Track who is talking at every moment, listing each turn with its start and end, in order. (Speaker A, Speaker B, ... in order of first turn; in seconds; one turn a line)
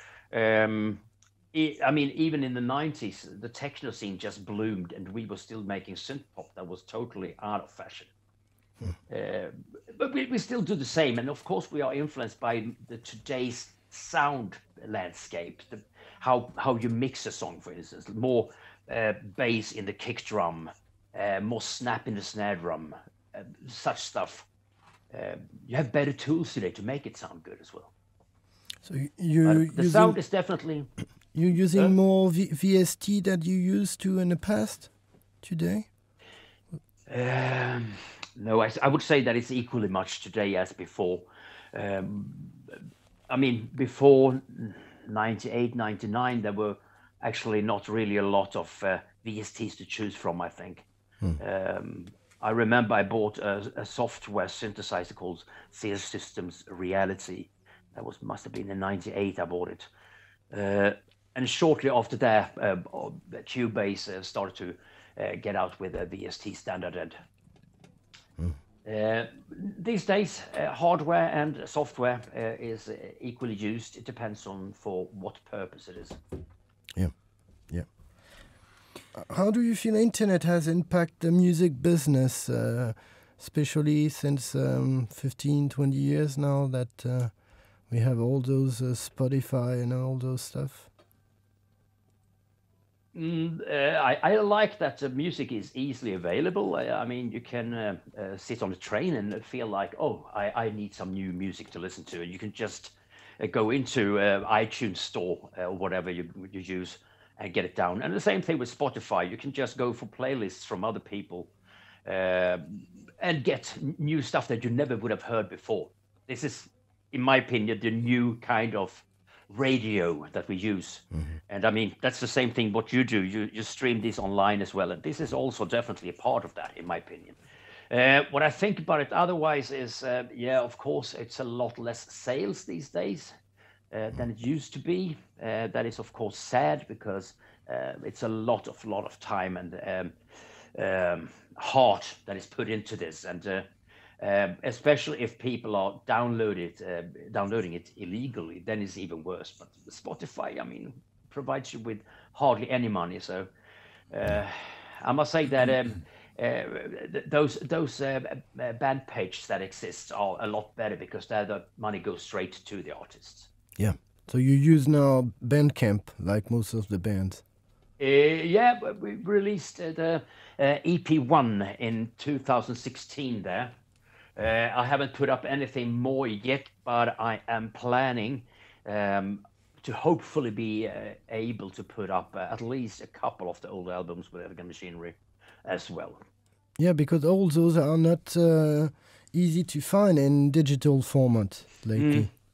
Speaker A: 0.3-8.1
Speaker A: 9.1-24.5
Speaker A: 25.1-27.9
Speaker B: 28.8-30.2
Speaker A: 29.4-30.9
Speaker B: 31.3-34.9
Speaker B: 35.4-35.9
Speaker A: 37.1-42.8
Speaker A: 43.3-50.8
Speaker A: 51.4-59.9
Speaker A: 60.5-67.2
Speaker A: 68.8-76.2
Speaker B: 79.1-87.3
Speaker B: 87.9-90.9
Speaker A: 93.1-111.5
Speaker A: 112.0-127.4
Speaker A: 127.9-133.3
Speaker A: 133.9-140.2
Speaker A: 140.7-143.7
Speaker A: 144.2-153.5
Speaker A: 154.1-163.5
Speaker B: 163.8-167.4
Speaker A: 168.0-173.7
Speaker A: 174.4-186.2
Speaker B: 186.8-192.3
Speaker A: 191.9-192.3